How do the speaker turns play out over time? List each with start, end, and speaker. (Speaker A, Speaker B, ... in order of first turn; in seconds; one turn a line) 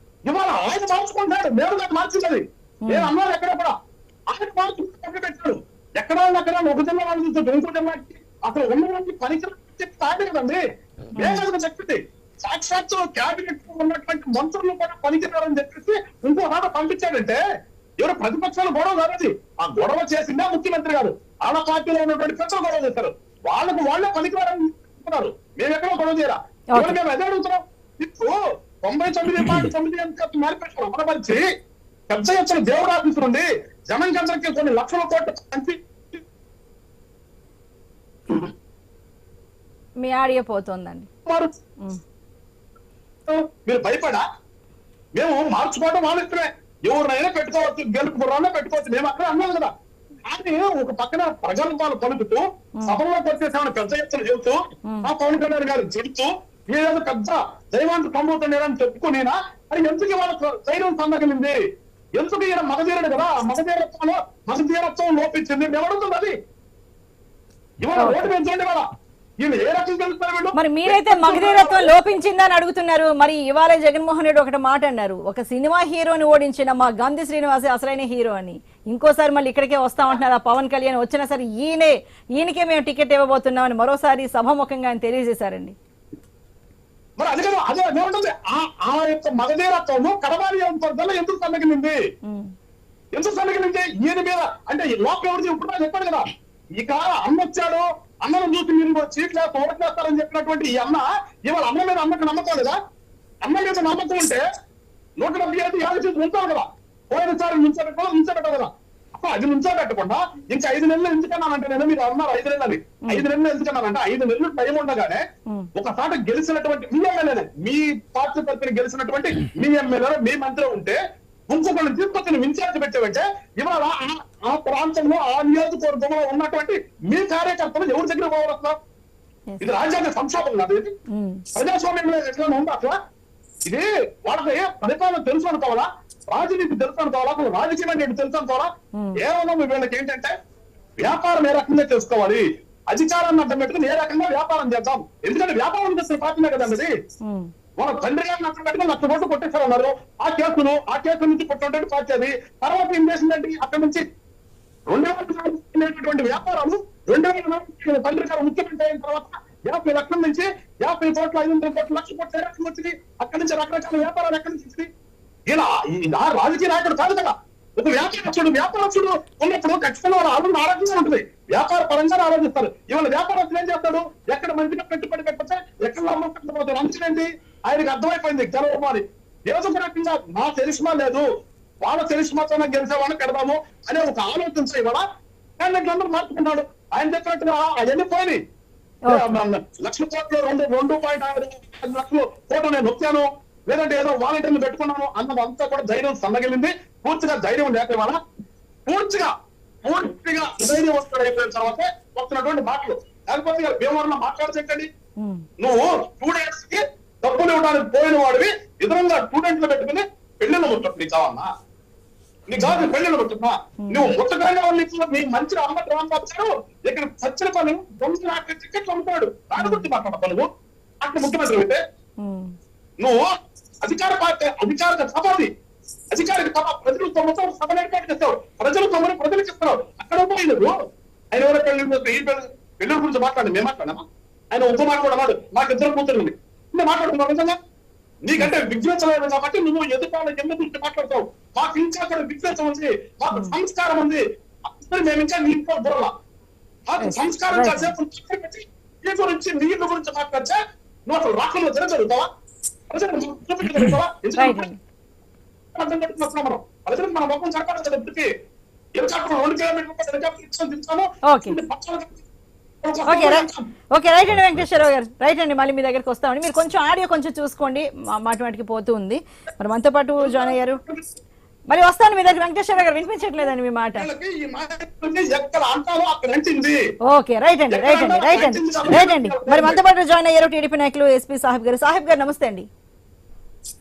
Speaker A: 0.3-3.7
Speaker B: 2.8-3.1
Speaker A: 4.3-10.6
Speaker A: 11.1-17.4
Speaker B: 11.2-11.4
Speaker A: 18.0-31.4
Speaker A: 32.1-36.2
Speaker B: 40.0-41.1
Speaker A: 43.2-44.2
Speaker A: 45.1-49.7
Speaker A: 50.3-61.6
Speaker A: 62.2-66.3
Speaker A: 67.8-68.8
Speaker B: 68.0-68.2
Speaker A: 69.4-71.9
Speaker B: 70.6-85.7
Speaker A: 87.2-92.0
Speaker B: 92.3-92.5
Speaker A: 93.1-96.2
Speaker A: 96.8-102.8
Speaker A: 103.4-104.4
Speaker A: 105.2-115.2
Speaker A: 115.7-121.0
Speaker A: 121.5-128.8
Speaker A: 129.6-130.9
Speaker B: 131.1-131.4
Speaker A: 131.5-132.9
Speaker A: 133.7-140.3
Speaker A: 141.0-146.9
Speaker B: 147.2-147.5
Speaker A: 147.8-154.0
Speaker A: 154.9-164.9
Speaker A: 165.5-181.2
Speaker A: 181.8-185.0
Speaker A: 185.6-188.4
Speaker B: 189.1-189.3
Speaker A: 189.1-198.2
Speaker A: 198.9-199.3
Speaker A: 199.8-204.9
Speaker A: 205.6-211.5
Speaker A: 212.5-220.5
Speaker B: 212.6-212.9
Speaker B: 213.8-214.1
Speaker B: 219.6-219.9
Speaker A: 221.0-221.8
Speaker B: 222.2-222.5
Speaker A: 223.0-225.5
Speaker A: 226.1-230.8
Speaker A: 231.3-237.6
Speaker A: 238.2-246.1
Speaker A: 246.9-252.2
Speaker B: 247.0-247.9
Speaker A: 252.9-254.7
Speaker B: 254.4-254.8
Speaker A: 255.7-258.3
Speaker A: 259.0-262.2
Speaker B: 261.3-261.5
Speaker A: 262.8-263.6
Speaker B: 263.1-270.8
Speaker A: 270.2-271.1
Speaker B: 271.7-274.1
Speaker A: 273.2-276.8
Speaker B: 277.1-282.7
Speaker A: 277.7-279.8